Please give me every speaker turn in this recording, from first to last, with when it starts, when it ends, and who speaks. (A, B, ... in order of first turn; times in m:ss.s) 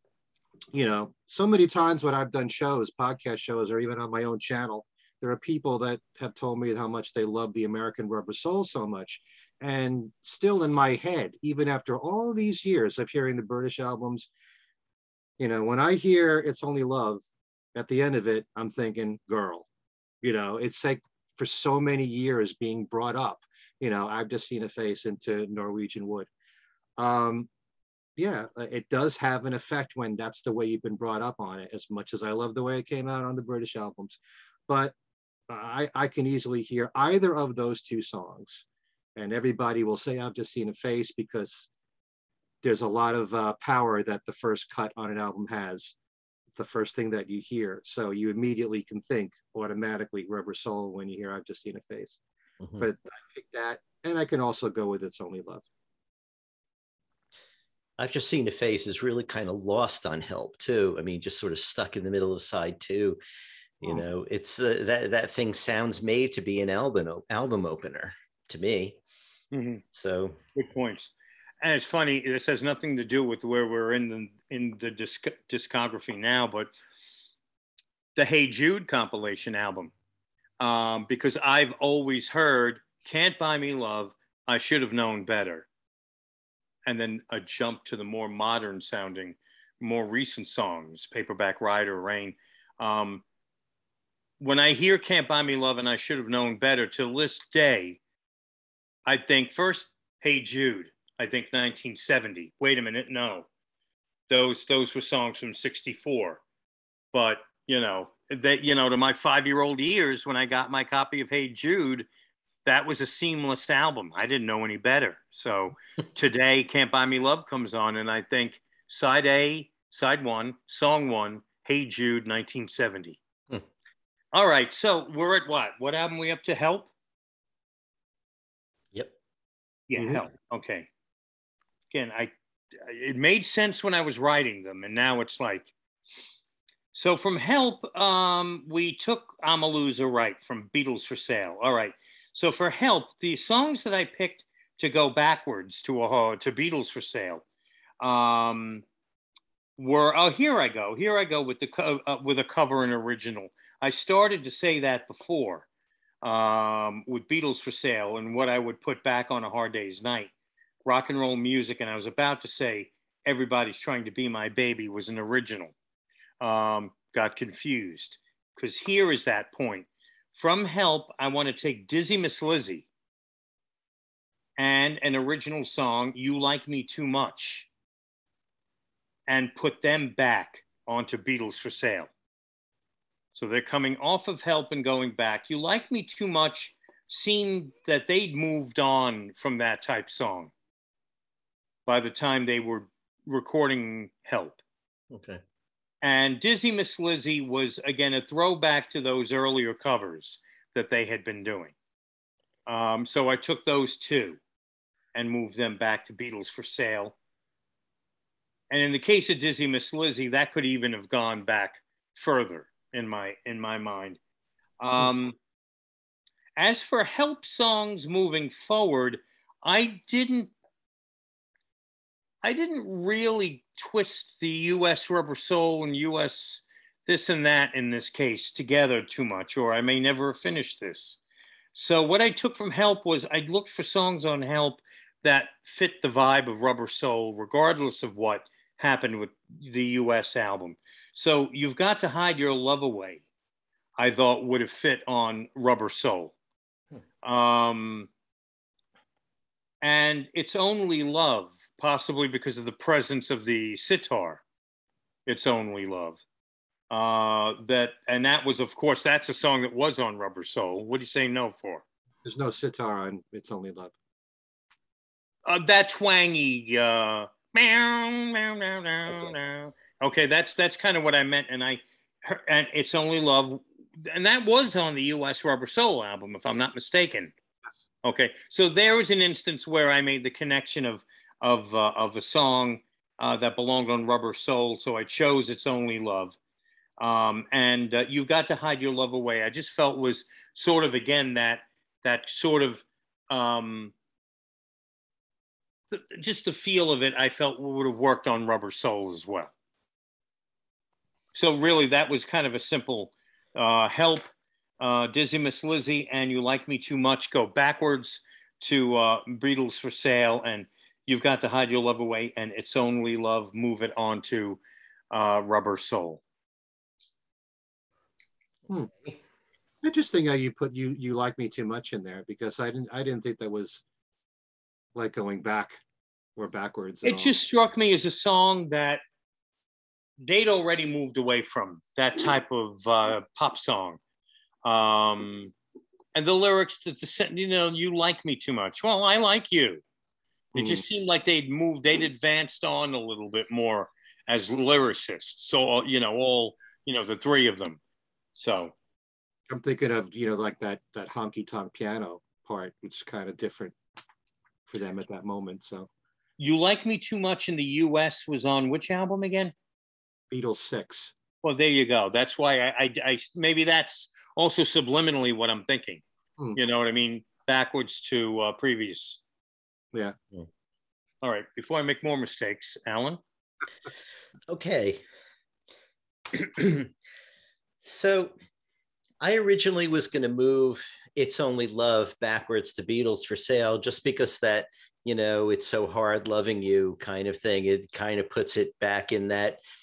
0:00.7-0:14.3 A
0:15.4-0:17.2 A
0:17.7-0:19.7 A
0:20.2-0:26.3 A
0:27.0-0:27.5 A
0:28.2-0:34.9 A
0:35.5-0:38.6 A
0:39.2-0:41.7 A
0:42.6-0:45.9 A
0:46.5-0:52.2 A
0:52.8-0:55.7 A
0:58.0-1:03.2 B
1:03.8-1:09.0 B
1:09.5-1:09.8 C
1:09.9-1:10.4 B
1:10.5-1:16.7 C
1:18.2-1:19.9 C
1:20.6-1:25.7 C
1:26.8-1:33.2 C
1:34.4-1:38.0 C
1:39.0-1:43.5 C
1:44.3-1:46.4 C
1:47.1-1:52.1 C
1:52.6-2:03.2 C
2:04.3-2:06.9 C
2:09.9-2:10.9 C
2:11.9-2:15.7 C
2:16.9-2:27.4 C
2:28.0-2:28.8 C
2:29.8-2:35.6 C
2:36.2-2:40.3 C
2:40.8-2:45.7 C
2:46.4-2:52.9 C
2:54.6-2:57.7 C
2:59.3-3:02.1 C
3:03.3-3:10.5 C
3:11.9-3:14.6 C
3:15.1-3:15.4 B
3:16.0-3:21.7 C
3:22.7-3:24.4 C
3:25.1-3:27.1 C
3:28.7-3:34.2 C
3:34.8-3:35.4 C
3:36.6-3:40.5 C
3:42.4-3:51.2 C
3:51.7-4:03.2 C
4:04.0-4:06.3 C
4:07.2-4:08.1 C
4:09.8-4:14.4 C
4:15.2-4:16.2 C
4:16.9-4:21.8 C
4:22.2-4:23.9 A
4:25.4-4:37.3 C
4:38.0-4:46.4 C
4:47.0-4:53.9 C
4:55.9-4:59.5 C
5:01.3-5:04.3 C
5:04.8-5:14.6 C
5:15.1-5:16.2 C
5:18.9-5:19.2 B
5:19.8-5:23.8 A
5:24.9-5:25.8 A
5:26.4-5:27.4 A
5:27.0-5:29.0 C
5:30.2-5:34.0 C
5:34.6-5:35.5 C
5:36.1-5:39.8 C
5:40.5-5:40.8 A
5:40.6-5:47.8 C
5:48.4-5:48.7 C
5:49.5-5:53.7 A
5:54.7-5:55.9 A
5:56.4-5:59.5 C
6:00.3-6:01.1 A
6:01.4-6:06.0 C
6:06.6-6:09.2 C
6:11.2-6:13.2 C
6:14.5-6:15.0 B
6:16.4-6:16.9 B
6:17.8-6:18.3 B
6:19.2-6:29.6 B